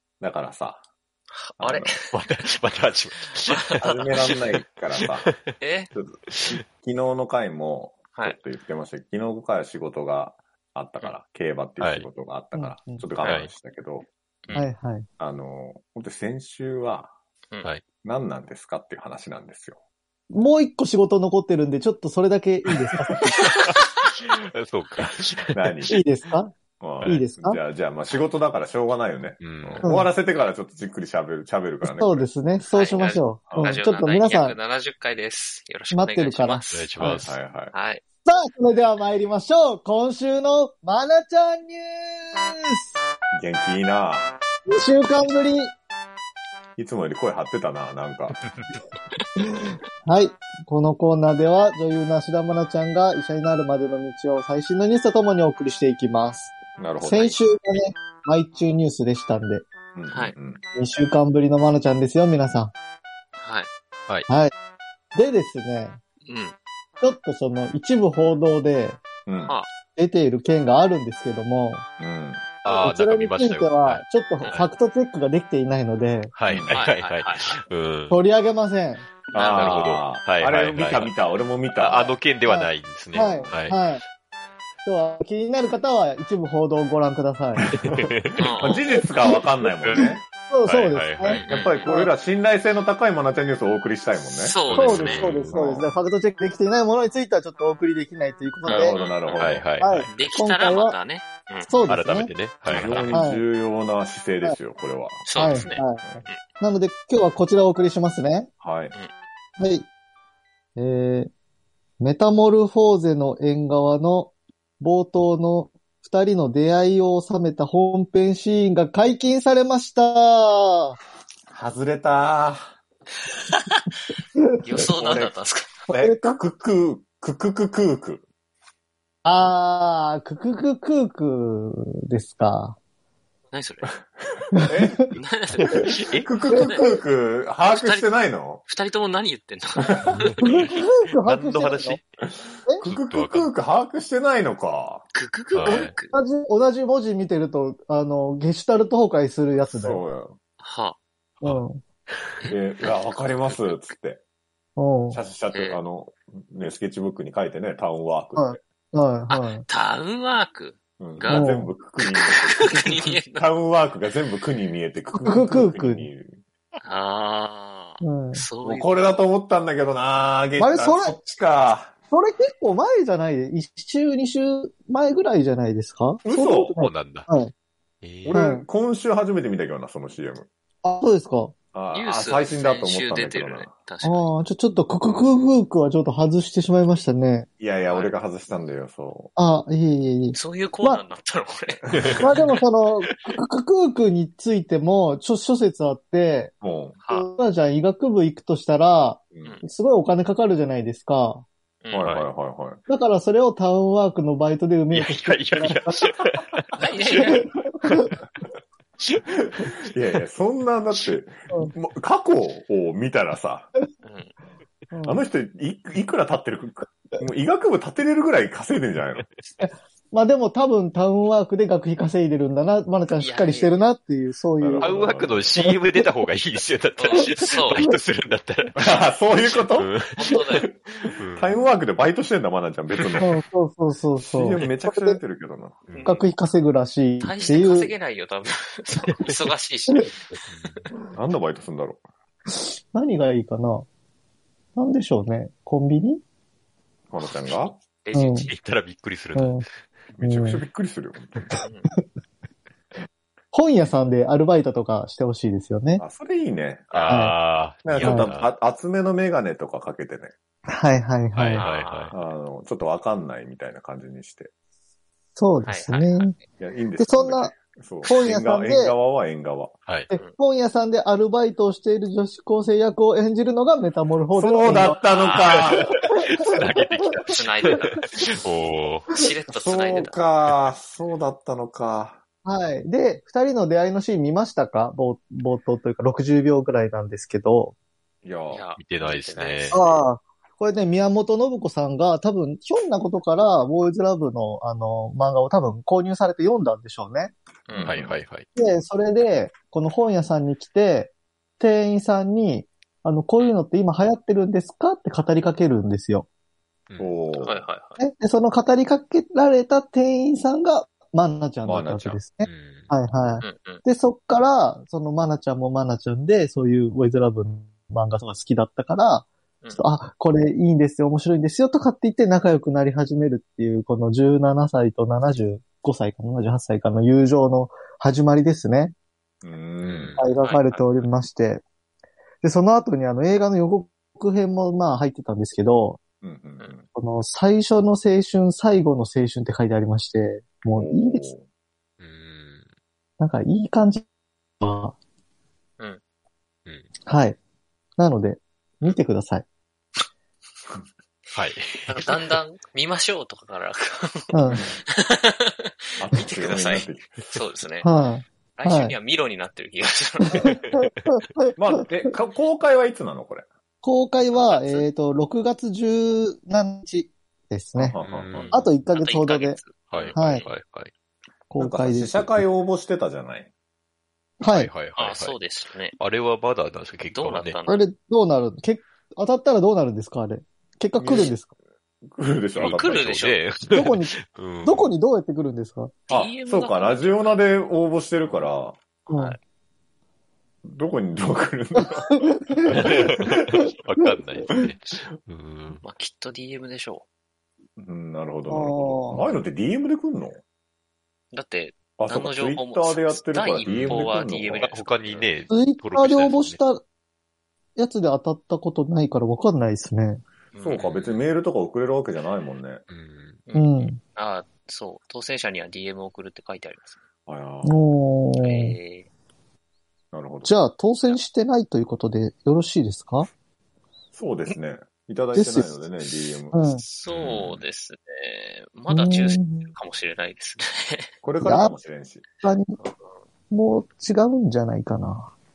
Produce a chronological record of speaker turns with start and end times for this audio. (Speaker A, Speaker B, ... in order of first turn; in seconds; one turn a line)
Speaker A: 0.2-0.8
Speaker B: 1.4-2.1
Speaker A: 1.6-2.0
Speaker C: 2.1-4.4
Speaker B: 3.5-4.0
Speaker A: 3.8-5.3
Speaker C: 5.0-5.3
Speaker B: 5.6-5.9
Speaker A: 5.9-14.1
Speaker C: 11.8-12.1
Speaker D: 12.5-13.1
Speaker C: 13.2-13.5
Speaker D: 14.6-15.1
Speaker A: 15.2-17.1
Speaker A: 18.0-19.8
Speaker D: 20.3-23.4
Speaker C: 23.4-25.8
Speaker A: 25.5-25.9
Speaker D: 25.9-26.5
Speaker A: 26.8-32.3
Speaker D: 27.0-27.6
Speaker C: 29.4-29.9
Speaker D: 29.8-30.1
Speaker D: 32.0-34.6
Speaker B: 32.7-36.9
Speaker A: 33.5-33.8
Speaker D: 35.9-37.2
Speaker C: 36.7-37.4
Speaker A: 37.1-37.7
Speaker B: 37.7-38.0
Speaker D: 38.2-42.9
Speaker A: 43.3-44.4
Speaker D: 44.7-45.7
Speaker A: 46.8-48.4
Speaker D: 49.5-59.7
Speaker A: 56.8-57.3
Speaker B: 57.1-57.4
Speaker A: 60.0-60.6
Speaker D: 60.8-62.7
Speaker B: 63.4-63.7
Speaker D: 65.1-66.0
Speaker B: 66.3-66.6
Speaker D: 67.0-69.0
Speaker A: 69.3-69.5
Speaker D: 70.0-71.8
Speaker A: 72.0-72.5
Speaker D: 72.6-76.3
Speaker C: 72.7-74.7
Speaker C: 76.3-78.2
Speaker A: 76.5-76.8
Speaker B: 76.7-77.5
Speaker D: 78.1-79.1
Speaker B: 79.3-80.0
Speaker A: 79.3-82.2
Speaker C: 79.5-81.1
Speaker C: 81.8-83.8
Speaker D: 82.5-84.0
Speaker D: 84.8-87.7
Speaker A: 87.6-90.2
Speaker C: 87.7-88.5
Speaker B: 88.4-88.9
Speaker C: 89.8-90.1
Speaker D: 90.5-92.1
Speaker C: 90.7-91.5
Speaker B: 91.3-91.9
Speaker A: 91.5-95.9
Speaker B: 94.4-95.4
Speaker C: 94.7-95.6
Speaker D: 94.7-99.0
Speaker B: 98.7-99.5
Speaker A: 98.7-99.7
Speaker C: 99.4-100.1
Speaker D: 99.8-101.0
Speaker B: 100.1-101.7
Speaker D: 101.7-102.3
Speaker C: 101.9-103.2
Speaker A: 102.7-106.2
Speaker B: 102.7-103.1
Speaker D: 103.1-103.4
Speaker B: 105.3-106.4
Speaker D: 105.4-106.0
Speaker D: 106.6-108.5
Speaker A: 108.6-108.9
Speaker D: 109.6-109.9
Speaker D: 110.8-111.3
Speaker D: 112.0-121.0
Speaker A: 121.5-122.7
Speaker B: 124.6-125.7
Speaker A: 124.8-125.3
Speaker D: 125.9-126.4
Speaker A: 125.9-128.2
Speaker D: 129.2-132.8
Speaker B: 133.5-134.0
Speaker A: 134.5-135.1
Speaker D: 134.5-134.9
Speaker B: 135.1-136.8
Speaker C: 135.6-136.3
Speaker A: 135.7-138.6
Speaker D: 136.5-136.9
Speaker B: 137.7-140.5
Speaker A: 139.9-140.3
Speaker C: 140.1-142.1
Speaker D: 140.4-142.0
Speaker A: 142.2-145.1
Speaker C: 142.8-143.5
Speaker B: 145.2-146.1
Speaker C: 145.6-145.9
Speaker D: 146.1-150.0
Speaker A: 149.7-150.4
Speaker B: 150.6-151.0
Speaker D: 151.4-151.8
Speaker A: 152.5-154.2
Speaker D: 154.8-155.2
Speaker A: 155.1-158.6
Speaker B: 155.5-155.8
Speaker D: 158.4-159.7
Speaker B: 159.3-163.5
Speaker A: 161.0-166.4
Speaker D: 161.3-161.7
Speaker D: 165.2-166.1
Speaker B: 166.8-169.2
Speaker D: 168.0-168.4
Speaker A: 168.6-171.9
Speaker D: 170.6-171.2
Speaker D: 172.1-177.5
Speaker A: 176.2-176.8
Speaker C: 176.8-177.3
Speaker C: 178.0-178.4
Speaker A: 178.2-180.5
Speaker D: 178.3-178.7
Speaker D: 180.8-181.5
Speaker A: 181.7-183.7
Speaker B: 181.9-184.3
Speaker D: 184.0-187.5
Speaker A: 187.6-189.3
Speaker D: 189.4-191.0
Speaker B: 190.3-192.2
Speaker A: 191.9-192.2
Speaker D: 192.2-196.5
Speaker A: 196.6-197.0
Speaker B: 197.0-197.3
Speaker D: 197.1-201.4
Speaker A: 199.3-199.6
Speaker B: 201.8-202.2
Speaker A: 201.9-202.8
Speaker D: 202.9-206.1
Speaker C: 204.9-208.2
Speaker B: 206.8-207.5
Speaker D: 207.2-208.1
Speaker C: 209.0-209.7
Speaker A: 209.4-213.7
Speaker B: 214.0-214.3
Speaker D: 214.9-215.2
Speaker A: 215.1-219.3
Speaker D: 219.6-225.0
Speaker B: 223.2-223.8
Speaker A: 224.6-225.6
Speaker C: 224.8-228.8
Speaker D: 225.6-226.0
Speaker B: 227.0-227.9
Speaker A: 228.8-230.0
Speaker C: 229.8-230.4
Speaker B: 230.2-230.7
Speaker A: 230.9-233.3
Speaker C: 231.1-231.5
Speaker C: 233.0-233.3
Speaker D: 233.2-235.2
Speaker A: 234.2-235.8
Speaker C: 235.9-236.1
Speaker B: 235.9-236.3
Speaker D: 236.0-237.9
Speaker B: 237.2-240.2
Speaker C: 240.5-240.8
Speaker A: 241.1-242.0
Speaker D: 242.9-243.9
Speaker D: 244.8-246.2
Speaker A: 247.1-247.8
Speaker B: 247.2-248.5
Speaker D: 248.1-248.5
Speaker C: 248.5-249.6
Speaker D: 249.3-249.7
Speaker A: 250.1-251.6
Speaker D: 250.2-250.6
Speaker B: 251.6-251.9
Speaker D: 253.5-256.0
Speaker A: 256.0-257.0
Speaker B: 256.9-257.2
Speaker C: 256.9-258.5
Speaker D: 257.1-257.4
Speaker A: 257.8-260.3
Speaker D: 258.0-258.3
Speaker D: 260.7-261.6
Speaker C: 261.4-262.1
Speaker B: 261.6-262.1
Speaker A: 262.1-264.5
Speaker D: 265.4-266.4
Speaker B: 265.7-266.4
Speaker A: 266.6-269.7
Speaker D: 267.0-268.9
Speaker D: 270.1-275.0
Speaker A: 274.3-276.0
Speaker B: 275.0-275.8
Speaker C: 275.6-279.1
Speaker B: 277.3-278.1
Speaker B: 279.1-280.2
Speaker A: 279.5-282.2
Speaker D: 282.4-287.8
Speaker A: 288.2-288.6
Speaker B: 288.5-290.0
Speaker C: 288.8-289.8
Speaker D: 289.7-297.3
Speaker B: 297.7-298.0
Speaker A: 297.7-298.2
Speaker C: 297.8-298.5
Speaker D: 298.6-306.3
Speaker C: 306.9-307.1
Speaker A: 307.0-307.6
Speaker B: 307.4-308.0
Speaker D: 308.0-328.9
Speaker A: 311.6-312.2
Speaker C: 312.4-312.9
Speaker B: 313.4-313.8
Speaker A: 329.4-330.2
Speaker C: 329.8-330.2
Speaker B: 330.2-331.0
Speaker D: 330.2-331.6
Speaker D: 332.4-336.0
Speaker A: 336.2-336.9
Speaker D: 336.9-341.3
Speaker A: 340.8-341.4
Speaker C: 342.0-342.6
Speaker D: 343.2-344.1
Speaker D: 344.6-344.9
Speaker D: 347.1-347.4
Speaker D: 348.0-349.4
Speaker C: 351.3-352.1
Speaker B: 351.9-357.9
Speaker D: 354.3-354.6
Speaker A: 356.0-357.2
Speaker D: 357.8-358.9
Speaker B: 358.6-360.6
Speaker D: 360.3-361.5
Speaker C: 360.4-360.9
Speaker A: 361.6-363.5
Speaker D: 363.8-368.0
Speaker B: 364.4-364.9
Speaker A: 367.8-368.4
Speaker C: 368.0-368.6
Speaker B: 368.3-370.5
Speaker D: 368.5-369.6
Speaker C: 369.9-370.9
Speaker D: 370.1-370.4
Speaker D: 371.5-372.4
Speaker A: 371.6-373.5
Speaker D: 374.4-374.7
Speaker C: 374.5-375.4
Speaker B: 375.0-376.0
Speaker C: 376.0-377.6
Speaker B: 377.1-377.9
Speaker D: 377.7-381.5
Speaker A: 381.0-381.3
Speaker A: 382.0-383.3
Speaker B: 382.6-383.4
Speaker C: 382.6-384.9
Speaker D: 383.7-385.9
Speaker B: 386.1-387.4
Speaker A: 386.1-388.8
Speaker D: 389.1-389.4
Speaker B: 389.1-389.4
Speaker A: 390.6-393.6
Speaker D: 391.8-392.9
Speaker C: 392.7-395.8
Speaker B: 395.8-397.1
Speaker A: 397.8-400.4
Speaker D: 398.5-399.3
Speaker B: 401.3-405.3
Speaker A: 402.0-404.8
Speaker C: 403.6-406.6
Speaker D: 405.5-406.8
Speaker D: 407.8-410.2
Speaker B: 410.5-410.9
Speaker A: 410.6-412.8
Speaker C: 410.8-411.1
Speaker C: 412.9-413.4
Speaker B: 413.5-417.0
Speaker D: 413.5-414.0
Speaker A: 417.3-417.8
Speaker D: 417.6-418.8
Speaker B: 418.4-419.1
Speaker A: 420.1-420.5
Speaker D: 420.4-423.3
Speaker A: 424.1-426.6
Speaker D: 425.4-425.8
Speaker D: 426.5-426.8
Speaker B: 426.8-431.1
Speaker C: 427.1-427.6
Speaker D: 428.9-429.7
Speaker A: 431.2-432.2
Speaker D: 431.4-431.7
Speaker D: 432.4-432.8
Speaker B: 432.8-433.2
Speaker D: 433.5-435.3